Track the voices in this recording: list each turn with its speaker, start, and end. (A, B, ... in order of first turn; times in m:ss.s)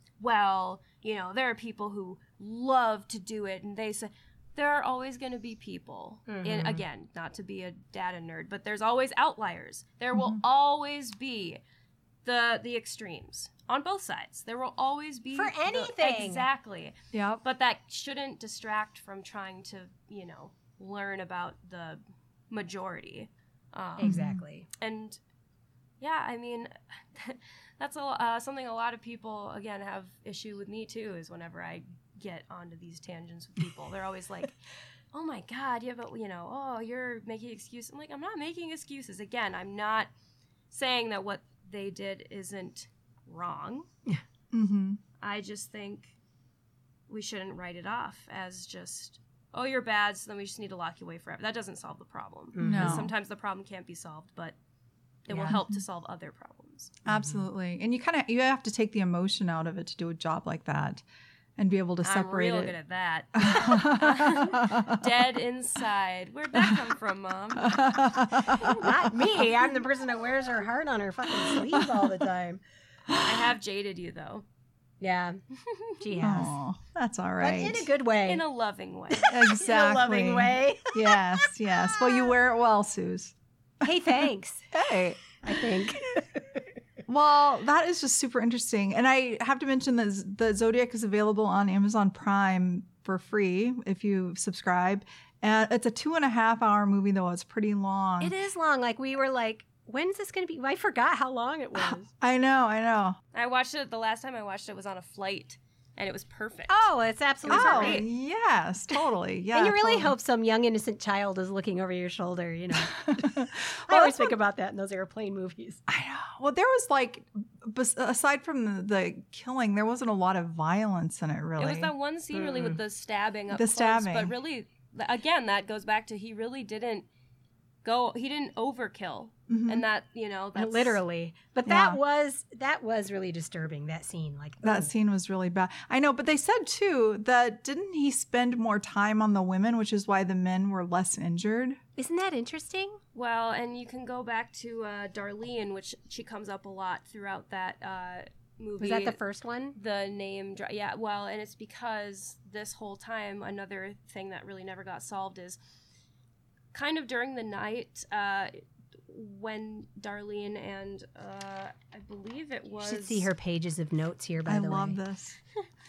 0:00.2-0:11.6 A
0:06.3-0:06.8 B
0:10.1-0:10.4 C
0:12.2-0:25.2 A
0:15.3-0:16.5 B
0:17.1-0:17.4 C
0:24.0-0:24.7 B
0:24.0-0:24.4 C
0:26.0-0:34.6 A
0:35.1-0:40.1 A
0:40.7-0:43.9 A
0:44.5-0:45.0 C
0:45.2-0:46.2 A
0:47.1-0:54.6 A
0:52.6-0:53.1 B
0:52.6-0:53.1 C
0:55.3-0:57.0 A
0:55.3-0:55.6 B
0:55.5-0:55.8 C
0:57.1-1:01.0 C
0:57.1-0:57.4 B
1:01.6-1:02.7 C
1:02.0-1:08.0 A
1:03.4-1:05.1 C
1:06.6-1:06.8 C
1:07.6-1:09.5 C
1:08.6-1:12.6 B
1:11.4-1:12.1 C
1:13.1-1:13.5 C
1:13.2-1:14.4 A
1:15.0-1:15.4 B
1:15.6-1:16.0 A
1:16.0-1:16.6 B
1:16.2-1:17.9 C
1:17.4-1:18.4 B
1:18.2-1:19.5 A
1:19.1-1:22.3 B
1:19.3-1:23.9 C
1:23.8-1:24.7 B
1:24.7-1:25.4 C
1:25.4-1:26.4 B
1:27.1-1:38.3 C
1:38.2-1:42.1 B
1:42.2-1:43.2 C
1:43.3-1:46.9 A
1:46.7-1:48.0 B
1:47.4-1:48.1 A
1:47.5-1:50.1 C
1:49.5-1:53.4 B
1:52.9-1:54.4 C
1:53.9-1:55.8 B
1:55.9-2:01.9 C
2:01.6-2:07.1 A
2:02.3-2:02.8 B
2:03.5-2:04.4 C
2:07.8-2:11.0 A
2:09.5-2:09.9 C
2:10.6-2:14.9 B
2:11.7-2:12.0 C
2:14.6-2:21.8 C
2:22.0-2:23.0 B
2:23.2-2:29.2 A
2:28.8-2:29.8 B
2:29.8-2:35.6 A
2:36.7-2:43.3 A
2:42.8-2:45.0 B
2:44.5-2:45.4 C